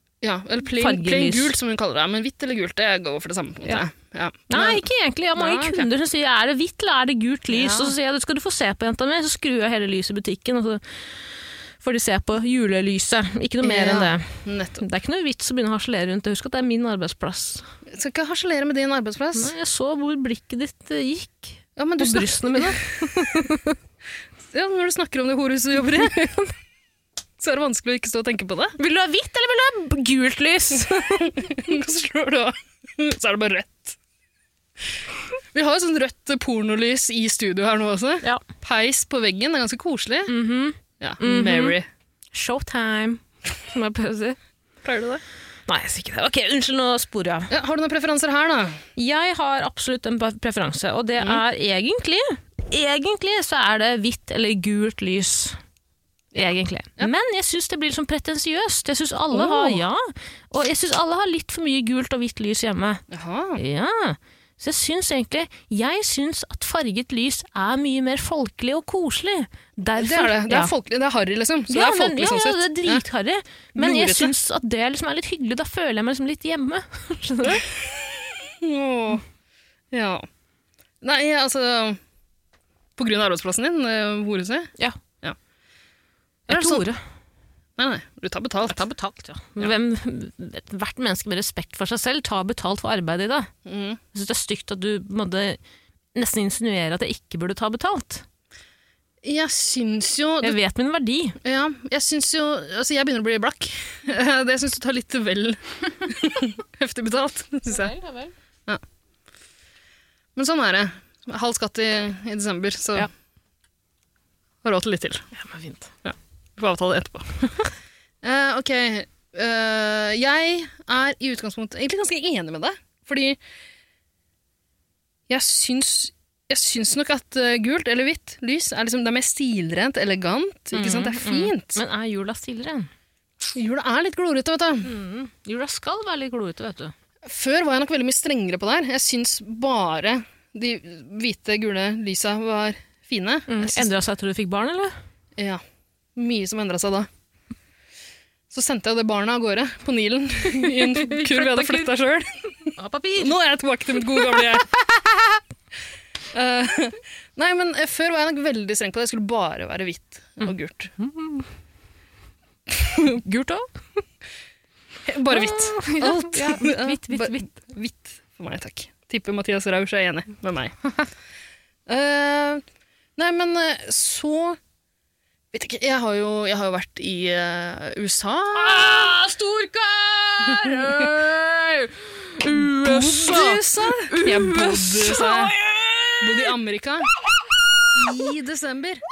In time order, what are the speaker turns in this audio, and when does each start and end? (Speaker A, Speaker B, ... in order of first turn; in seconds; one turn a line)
Speaker A: 0.2-4.8
Speaker B: 0.8-1.6
Speaker B: 4.5-10.8
Speaker A: 5.3-5.9
Speaker A: 7.5-7.9
Speaker B: 11.8-17.7
Speaker A: 13.6-14.8
Speaker A: 17.9-19.5
Speaker B: 19.3-23.8
Speaker A: 21.8-23.5
Speaker A: 24.5-26.2
Speaker B: 25.9-26.5
Speaker A: 27.4-28.8
Speaker B: 28.8-31.6
Speaker A: 31.2-34.0
Speaker A: 35.5-40.3
Speaker B: 40.3-41.8
Speaker A: 41.0-41.9
Speaker B: 42.3-44.4
Speaker A: 44.8-45.2
Speaker B: 45.7-47.5
Speaker A: 47.5-48.8
Speaker B: 49.0-55.6
Speaker B: 56.3-63.0
Speaker A: 59.3-59.8
Speaker A: 63.1-63.6
Speaker B: 63.5-70.7
Speaker A: 70.0-73.0
Speaker B: 71.7-77.7
Speaker A: 73.8-74.3
Speaker A: 77.6-79.2
Speaker A: 79.9-80.2
Speaker A: 81.0-82.0
Speaker A: 83.0-85.4
Speaker B: 86.5-87.0
Speaker A: 86.5-86.9
Speaker A: 87.8-88.8
Speaker B: 88.6-93.5
Speaker A: 93.6-94.0
Speaker B: 94.1-95.6
Speaker B: 96.1-98.2
Speaker A: 99.2-100.6
Speaker B: 100.4-101.4
Speaker A: 101.4-107.9
Speaker B: 107.7-108.3
Speaker A: 110.3-113.1
Speaker A: 114.6-115.2
Speaker B: 115.3-115.9
Speaker A: 116.0-117.5
Speaker A: 118.2-123.4
Speaker A: 125.3-131.8
Speaker B: 130.7-132.9
Speaker A: 133.5-134.9
Speaker B: 134.8-136.9
Speaker A: 137.2-143.9
Speaker B: 143.5-144.9
Speaker A: 145.4-145.6
Speaker A: 146.2-147.1
Speaker A: 148.5-154.7
Speaker B: 150.5-151.9
Speaker B: 152.8-153.3
Speaker B: 154.0-155.3
Speaker A: 156.3-160.9
Speaker B: 161.0-161.5
Speaker B: 162.9-163.7
Speaker A: 165.1-170.7
Speaker B: 165.3-167.5
Speaker A: 171.9-172.6
Speaker A: 173.2-174.6
Speaker A: 175.5-179.0
Speaker B: 178.5-186.5
Speaker A: 180.5-181.1
Speaker A: 182.5-185.5
Speaker A: 186.2-187.1
Speaker A: 187.9-189.0
Speaker B: 188.0-188.2